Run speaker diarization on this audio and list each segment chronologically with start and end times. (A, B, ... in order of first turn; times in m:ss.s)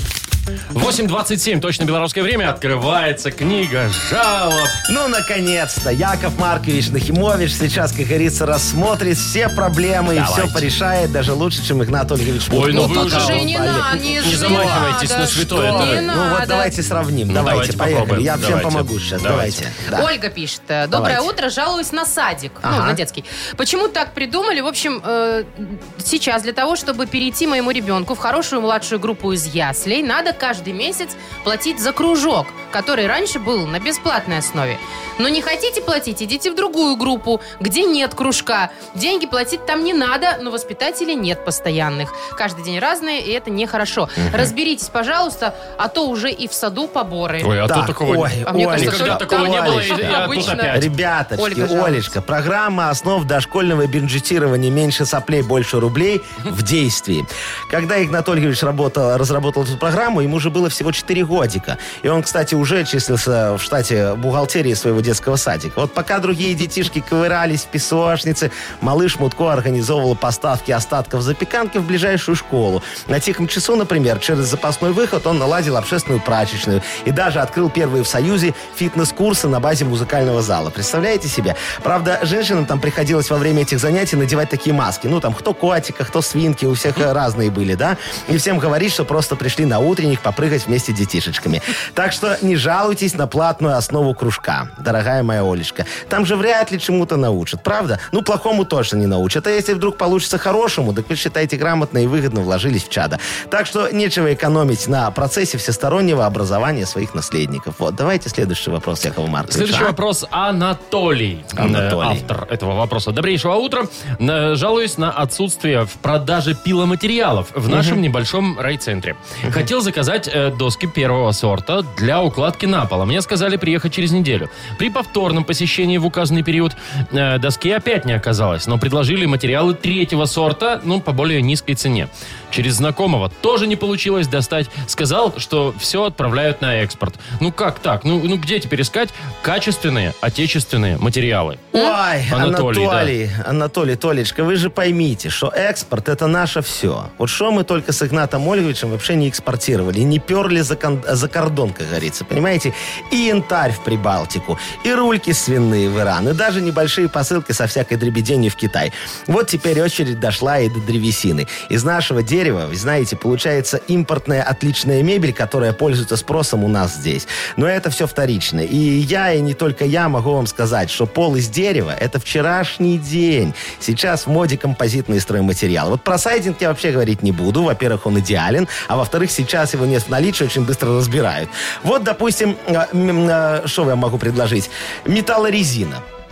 0:00.7-0:04.8 A
0:04.9-0:15.0 B
0:10.1-0:10.6 A
0:12.5-0:13.5 A
0:12.7-0:16.7 C
0:14.2-0:16.0 A
0:15.5-0:20.1 B
0:17.3-0:19.6 A
0:19.9-0:47.5 C
0:20.9-0:21.3 B
0:22.6-0:23.0 B
0:44.2-0:44.5 B
0:47.4-0:50.9 A
0:47.6-1:49.9 B
0:48.4-0:50.8 C
0:51.4-0:52.1 C
1:49.5-2:21.7 A
1:51.6-1:52.2 B
1:57.7-1:58.0 B
2:21.7-3:06.0 B
2:22.3-2:23.1 A